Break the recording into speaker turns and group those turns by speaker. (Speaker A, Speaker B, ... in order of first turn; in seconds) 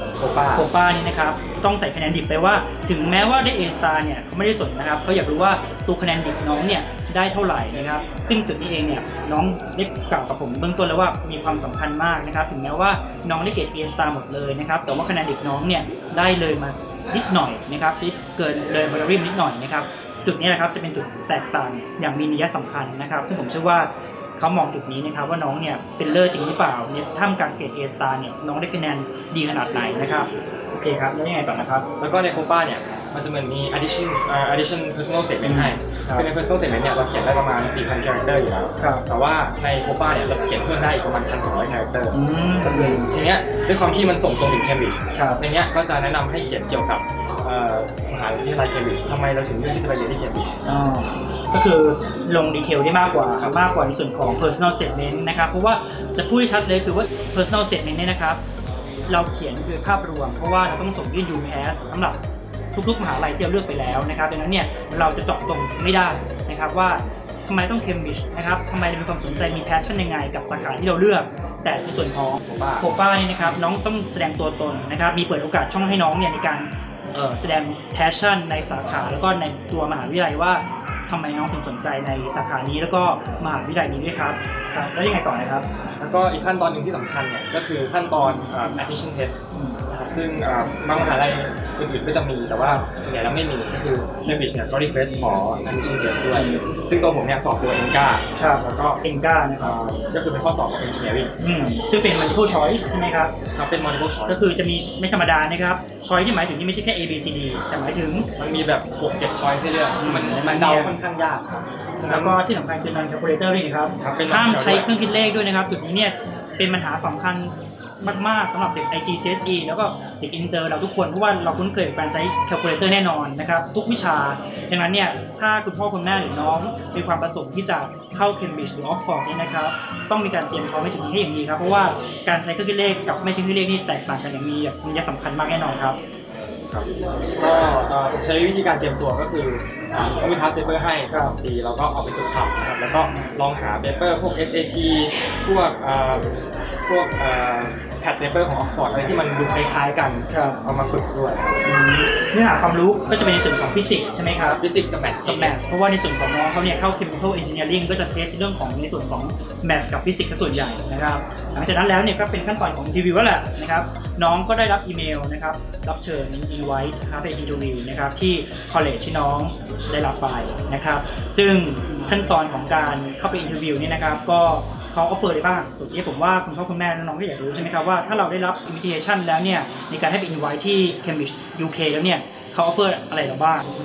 Speaker A: 0.2-0.7, 32.0-50.5, 72.4-72.8, 86.0-89.4, 89.9-99.0, 99.6-101.3, 103.5-104.4, 108.4-112.4, 114.0-114.9, 136.7-146.3, 146.9-151.6, 154.4-155.6
Speaker B: 0.5-31.9, 35.4-36.3, 42.1-43.0, 45.1-45.4, 50.6-58.4, 59.1-62.2, 62.7-85.7, 96.3-96.6, 98.4-99.7, 101.4-103.3, 104.3-108.3, 110.0-110.9, 112.0-136.0, 141.1-141.3, 150.3-150.6, 151.6-154.6, 155.2-183.7